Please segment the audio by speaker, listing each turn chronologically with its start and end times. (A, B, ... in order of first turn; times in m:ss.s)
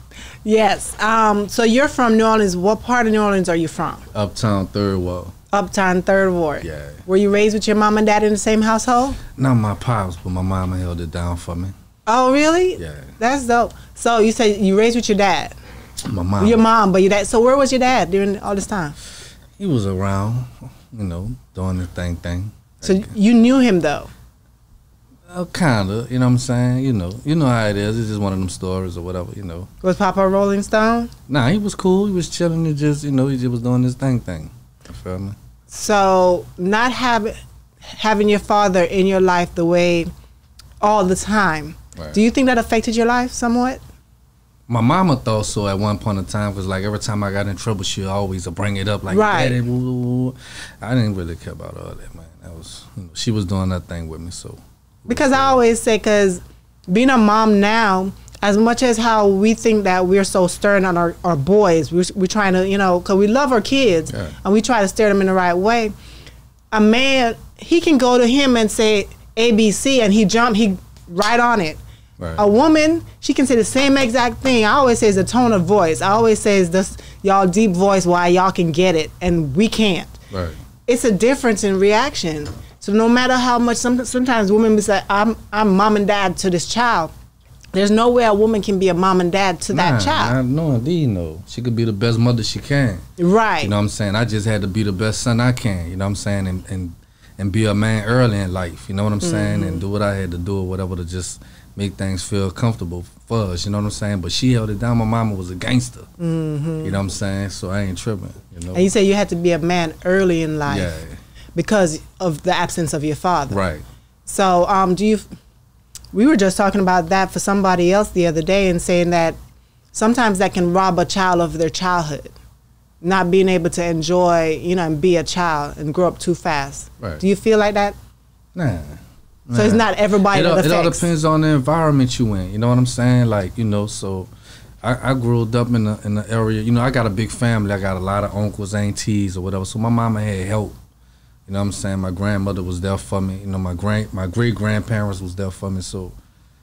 0:00.4-0:04.0 A
0:04.1-0:05.3 B
0:05.5-0:09.2 A
0:06.6-0:07.0 B
0:09.4-0:11.7 B
0:12.1-0:15.6 A
0:12.8-0:13.1 B
0:16.0-0:16.6 B
0:16.4-0:19.0 A
0:19.6-0:23.1 B
0:22.8-0:24.1 A
0:25.3-0:29.7 B
0:29.8-0:31.1 A
0:31.3-0:35.4 B
0:35.7-0:37.4 A
0:37.9-0:40.1 A
0:40.8-0:43.8 A
0:44.7-0:55.6 B
0:49.1-0:49.6 A
0:55.1-1:05.9 A
1:04.1-1:04.4 B
1:06.7-1:11.8 A
1:12.4-1:20.2 A
1:20.3-1:20.6 B
1:20.9-1:27.1 A
1:27.7-1:30.4 A
1:29.7-1:33.0 B
1:33.2-1:33.7 A
1:33.6-1:46.1 B
1:39.2-1:39.8 A
1:46.2-1:47.0 A
1:46.8-1:48.9 B
1:48.7-1:50.9 A
1:50.7-1:51.2 B
1:51.6-1:53.6 A
1:53.5-1:53.8 B
1:54.3-1:55.3 A
1:56.1-1:59.4 A
1:59.9-2:02.3 A
2:03.0-2:08.0 A
2:08.6-2:14.3 B
2:09.5-2:11.1 A
2:14.8-2:20.8 B
2:21.5-2:26.2 B